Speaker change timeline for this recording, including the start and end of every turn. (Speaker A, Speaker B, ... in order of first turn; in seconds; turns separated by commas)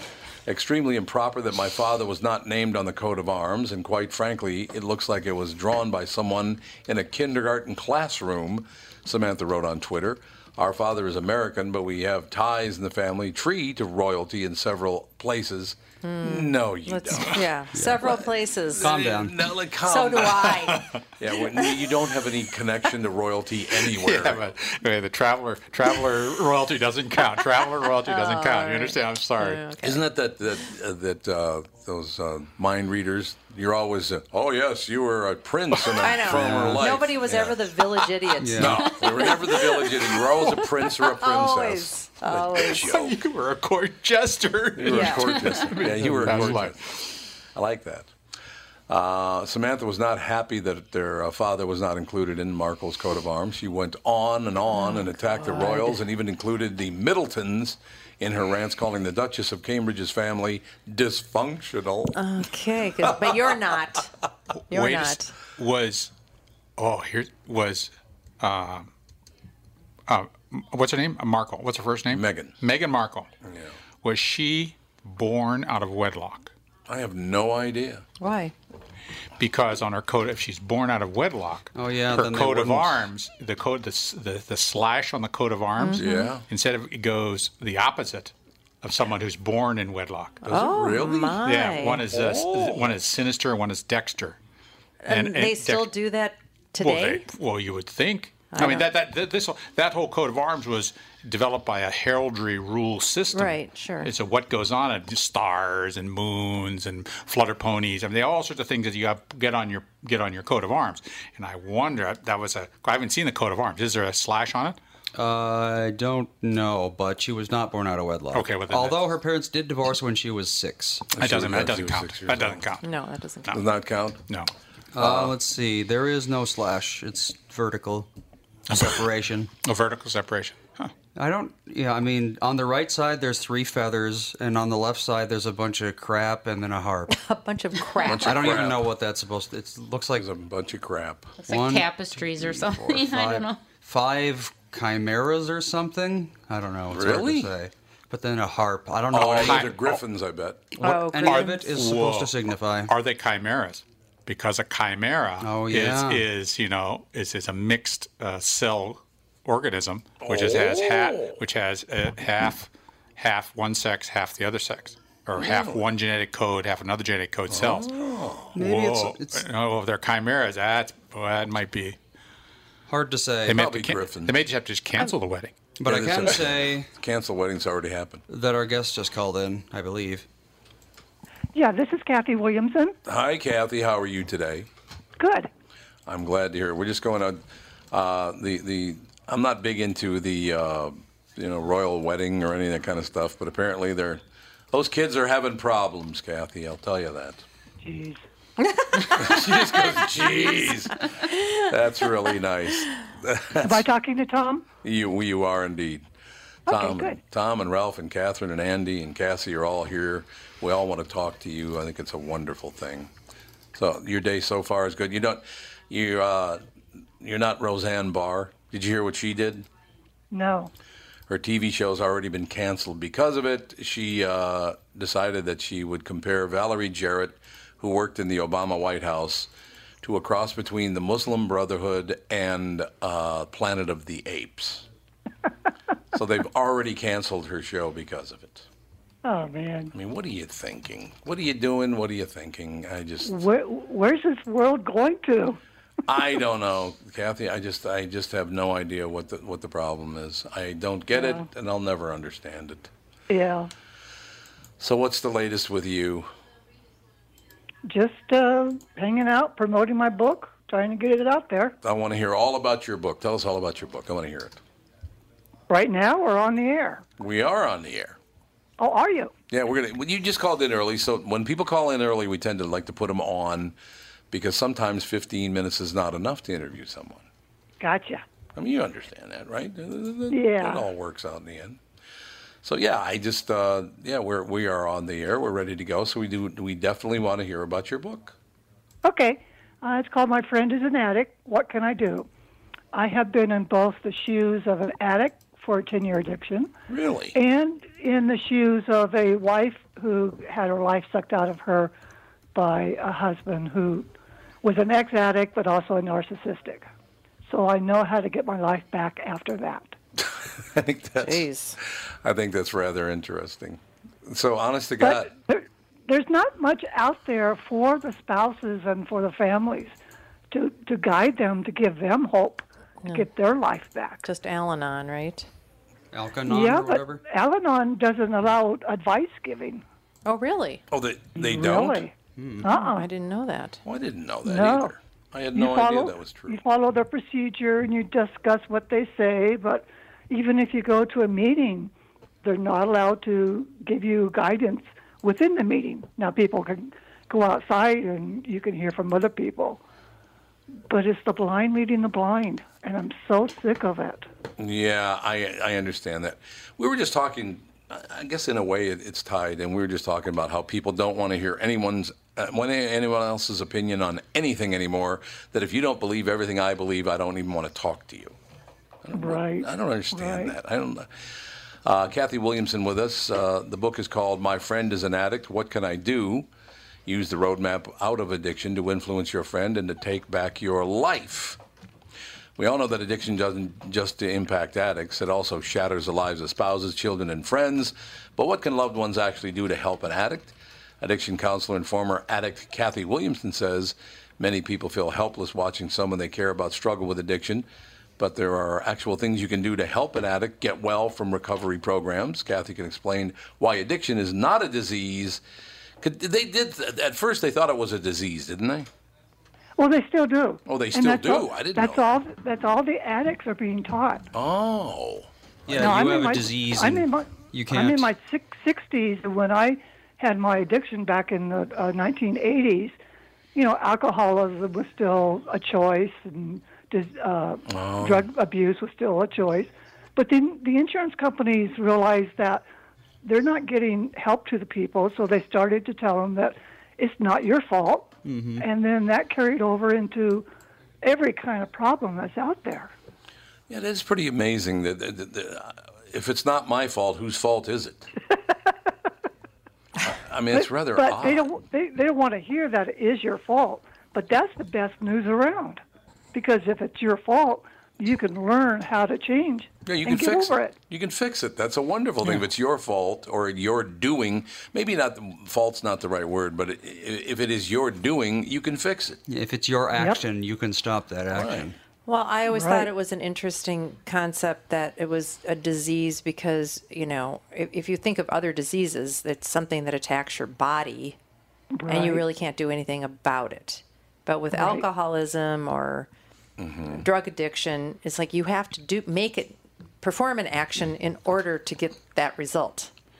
Speaker A: 0.5-17.5, Speaker B: 16.0-19.1, Speaker C: 17.7-18.2, Speaker A: 18.0-24.5, Speaker C: 18.8-19.5, Speaker B: 19.8-20.9, Speaker D: 24.0-29.6, Speaker B: 28.0-30.0, Speaker A: 29.8-37.8, Speaker B: 36.0-42.9, Speaker C: 36.2-36.9, Speaker C: 38.4-38.9, Speaker A: 38.6-43.2, Speaker D: 42.7-47.1, Speaker A: 44.8-48.1, Speaker B: 44.9-45.5, Speaker A: 48.9-62.2, Speaker B: 54.7-56.0, Speaker B: 62.1-64.1, Speaker B: 64.7-65.3, Speaker D: 64.7-66.1, Speaker D: 66.8-68.9, Speaker D: 70.1-73.3, Speaker A: 72.1-72.5, Speaker A: 73.4-73.8, Speaker D: 74.0-76.5, Speaker A: 76.9-78.0, Speaker B: 78.2-78.5, Speaker D: 79.4-90.5, Speaker C: 81.8-83.0, Speaker B: 85.8-86.3, Speaker A: 86.0-86.4, Speaker A: 90.4-91.4, Speaker B: 90.5-92.0, Speaker D: 91.4-94.4, Speaker A: 92.1-92.9, Speaker B: 95.0-97.3, Speaker D: 95.1-95.9, Speaker D: 96.8-114.8, Speaker B: 98.5-98.9, Speaker B: 103.3-104.1, Speaker C: 115.2-121.1, Speaker D: 118.3-119.1, Speaker A: 121.1-122.7, Speaker D: 121.2-122.9, Speaker B: 122.8-123.6, Speaker A: 123.5-124.2, Speaker C: 124.9-128.1, Speaker A: 125.0-125.3, Speaker D: 128.7-129.0, Speaker C: 128.7-129.5, Speaker D: 129.6-130.9, Speaker C: 131.2-137.2, Speaker B: 137.1-138.7, Speaker A: 138.0-138.9, Speaker C: 138.2-140.3, Speaker A: 140.2-141.4, Speaker E: 141.4-143.7, Speaker C: 141.5-149.8, Speaker A: 146.9-147.5, Speaker A: 149.1-150.7, Speaker D: 149.2-150.0, Speaker C: 150.8-152.9, Speaker B: 150.8-151.6, Speaker D: 150.9-167.9, Speaker C: 155.4-156.2, Speaker A: 160.2-161.4, Speaker A: 165.4-165.8, Speaker A: 167.5-168.6, Speaker C: 168.6-169.4, Speaker D: 168.6-172.0, Speaker C: 172.9-173.6, Speaker D: 173.5-175.6, Speaker A: 173.5-174.4, Speaker C: 175.8-176.9, Speaker A: 175.8-178.2, Speaker C: 178.3-180.3, Speaker F: 181.5-183.0, Speaker A: 183.1-184.7, Speaker F: 185.2-185.5, Speaker A: 186.1-197.4, Speaker F: 197.8-198.2, Speaker B: 198.6-199.4, Speaker A: 199.1-203.9, Speaker F: 203.6-204.7, Speaker A: 204.8-206.1, Speaker A: 206.7-213.1, Speaker F: 206.7-207.2, Speaker A: 213.7-216.6, Speaker A: 217.2-219.7, Speaker F: 220.3-220.7, Speaker A: 221.3-229.5, Speaker A: 230.0-234.9, Speaker A: 236.1-238.7, Speaker F: 239.2-239.9, Speaker A: 239.9-243.4, Speaker F: 243.2-245.6, Speaker A: 246.1-252.9, Speaker F: 251.1-251.5, Speaker F: 253.3-253.7, Speaker A: 254.8-256.3, Speaker F: 257.9-261.8, Speaker A: 261.8-264.6, Speaker F: 265.7-267.0, Speaker A: 267.2-268.2, Speaker F: 268.8-269.3, Speaker A: 269.5-273.8, Speaker A: 274.3-277.3, Speaker F: 277.8-278.2, Speaker A: 278.6-281.8, Speaker F: 280.3-280.9, Speaker A: 282.6-288.4, Speaker F: 289.0-292.3, Speaker F: 292.9-296.7, Speaker A: 296.9-297.4, Speaker F: 297.3-301.9, Speaker F: 302.6-304.1, Speaker F: 304.6-306.9, Speaker F: 307.5-310.0, Speaker A: 310.2-315.3, Speaker B: 311.2-311.8, Speaker F: 315.0-319.9, Speaker F: 320.5-324.2, Speaker B: 324.2-325.5, Speaker C: 326.1-327.2, Speaker F: 326.5-329.8, Speaker B: 330.3-330.8, Speaker A: 330.9-332.1, Speaker F: 331.4-333.1, Speaker C: 332.4-332.7, Speaker B: 332.6-333.8, Speaker A: 333.9-336.6, Speaker F: 334.4-334.9, Speaker F: 335.5-341.9, Speaker F: 342.4-349.8, Speaker F: 350.9-354.3, Speaker A: 354.6-368.4, Speaker A: 369.0-371.2, Speaker F: 369.1-370.5, Speaker A: 371.8-376.5, Speaker A: 377.1-381.6, Speaker A: 382.6-397.7, Speaker A: 398.2-405.4, Speaker A: 406.0-408.9, Speaker F: 409.8-414.3, Speaker A: 410.7-412.1, Speaker A: 414.3-415.3, Speaker C: 415.7-418.1, Speaker F: 415.7-423.0, Speaker F: 423.6-432.6, Speaker A: 427.7-428.3, Speaker F: 433.2-440.5, Speaker C: 438.2-438.7, Speaker F: 441.0-442.9, Speaker A: 443.7-448.1, Speaker A: 450.0-451.5, Speaker F: 450.5-455.8, Speaker F: 456.3-460.8, Speaker A: 459.9-469.2, Speaker C: 469.3-471.8, Speaker F: 469.9-470.2, Speaker A: 471.3-471.7, Speaker B: 472.1-481.2, Speaker F: 472.5-472.9, Speaker F: 481.8-482.2, Speaker B: 481.9-486.1, Speaker F: 484.5-484.9, Speaker A: 486.6-487.0, Speaker B: 486.9-492.9